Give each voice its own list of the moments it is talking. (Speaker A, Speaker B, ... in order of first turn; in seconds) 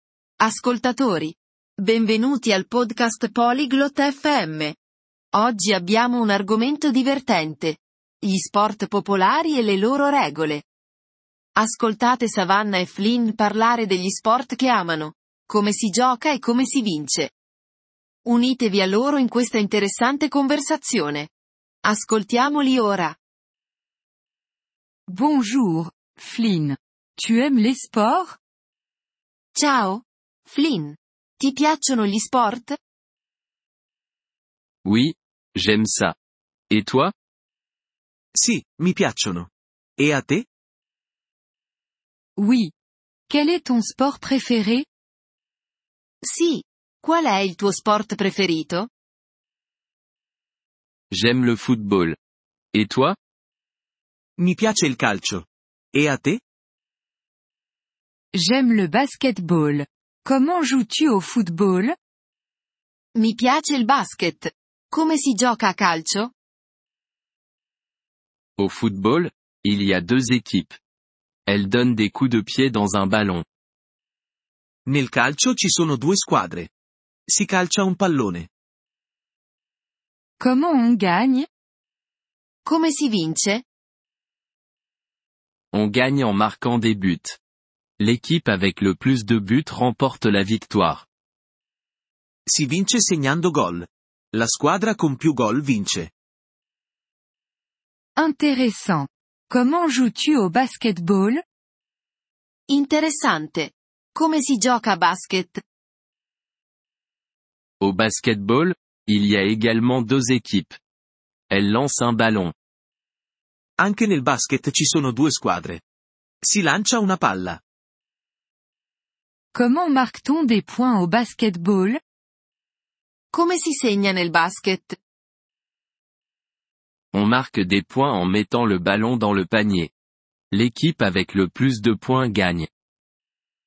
Speaker A: 0.4-4.8, 5.3-10.6, 11.6-17.3, 18.2-21.3, 21.8-23.2, 29.5-32.8, 46.2-48.9, 63.1-66.3, 82.6-83.6, 102.7-105.6, 123.3-125.0
Speaker B: 25.1-28.4, 42.4-42.7, 43.3-44.9, 58.4-61.9, 80.4-81.5, 98.2-101.4, 119.5-122.0
Speaker C: 34.8-36.1, 36.7-37.1, 51.1-52.2, 52.7-53.1, 68.6-70.7, 71.5-73.4, 85.7-87.4, 88.0-91.0, 107.8-110.7, 111.5-112.5, 127.1-129.9, 130.5-132.7
Speaker D: 38.3-40.5, 54.4-56.4, 74.9-76.7, 77.3-78.5, 92.5-96.1, 113.8-115.8, 116.4-117.6